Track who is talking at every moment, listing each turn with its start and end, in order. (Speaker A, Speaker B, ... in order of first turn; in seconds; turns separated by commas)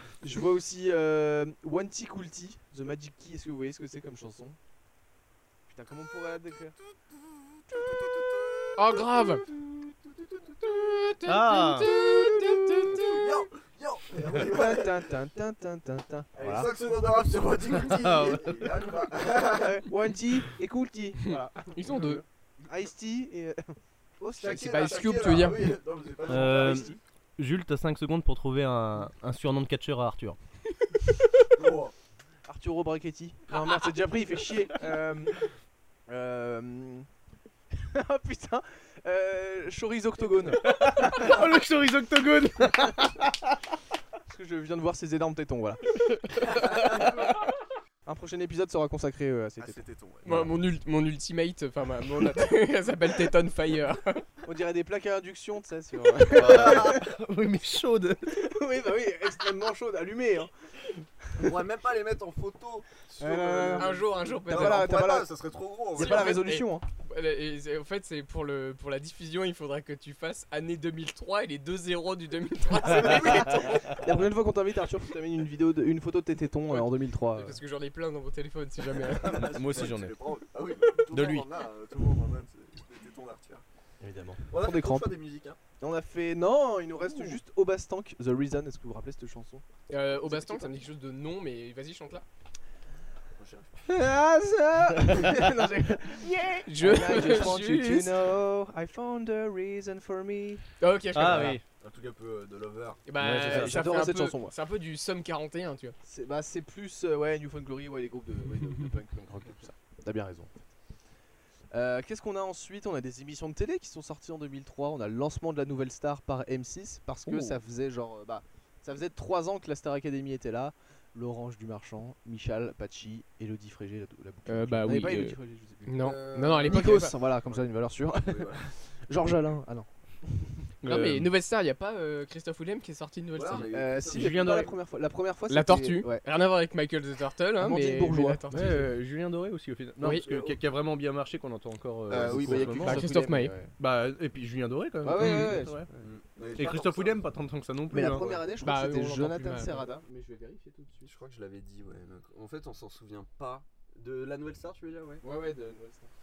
Speaker A: 0.2-4.6, Speaker A: 5.7-6.7, Speaker B: 6.8-11.1, Speaker C: 8.8-9.4, Speaker C: 11.0-13.4, Speaker D: 11.2-11.9, Speaker B: 11.9-15.0, Speaker A: 14.3-16.7, Speaker B: 16.4-19.9, Speaker D: 17.9-18.7, Speaker A: 19.5-24.8, Speaker C: 21.2-22.2, Speaker B: 24.4-27.0, Speaker C: 24.5-25.7, Speaker D: 26.3-30.4, Speaker B: 31.5-31.9, Speaker A: 32.5-35.5, Speaker A: 36.1-37.1, Speaker A: 37.7-41.3, Speaker D: 40.6-43.5, Speaker A: 44.3-47.0, Speaker D: 46.1-47.1, Speaker A: 48.0-50.5, Speaker B: 49.6-50.5, Speaker C: 50.2-54.2, Speaker A: 54.4-57.0, Speaker D: 56.3-58.4, Speaker B: 56.4-57.0, Speaker A: 58.3-61.5, Speaker B: 61.4-66.4, Speaker A: 63.2-65.3, Speaker C: 63.8-64.9, Speaker A: 65.9-66.8, Speaker C: 66.0-73.9, Speaker B: 72.8-74.0, Speaker A: 73.3-77.6, Speaker C: 76.7-79.5, Speaker B: 79.0-83.6, Speaker D: 79.2-80.1, Speaker D: 81.1-81.5, Speaker A: 84.0-85.1, Speaker B: 84.5-85.6, Speaker A: 85.8-90.7, Speaker C: 89.9-92.2, Speaker B: 93.3-93.8, Speaker A: 93.8-100.7, Speaker C: 96.4-98.2, Speaker C: 100.8-101.6, Speaker D: 101.1-101.6, Speaker A: 101.3-101.5, Speaker B: 101.7-103.0, Speaker C: 103.0-105.9, Speaker D: 103.2-103.8, Speaker A: 103.5-104.5, Speaker A: 106.0-110.5, Speaker A: 111.7-131.2, Speaker C: 124.5-127.1, Speaker B: 126.0-127.5, Speaker B: 128.2-128.7, Speaker C: 130.8-133.7, Speaker D: 130.8-131.3, Speaker B: 133.3-134.7, Speaker A: 133.5-136.2, Speaker D: 134.1-134.7, Speaker C: 135.5-138.9, Speaker A: 137.6-138.4, Speaker D: 138.5-143.0, Speaker B: 140.1-140.6, Speaker B: 142.1-142.9, Speaker A: 142.1-143.7, Speaker C: 142.8-143.5, Speaker D: 143.8-145.9, Speaker A: 145.0-146.1, Speaker B: 146.0-147.2, Speaker D: 146.5-148.4, Speaker A: 147.9-151.1, Speaker C: 148.5-149.8, Speaker B: 151.0-155.2, Speaker A: 155.2-156.1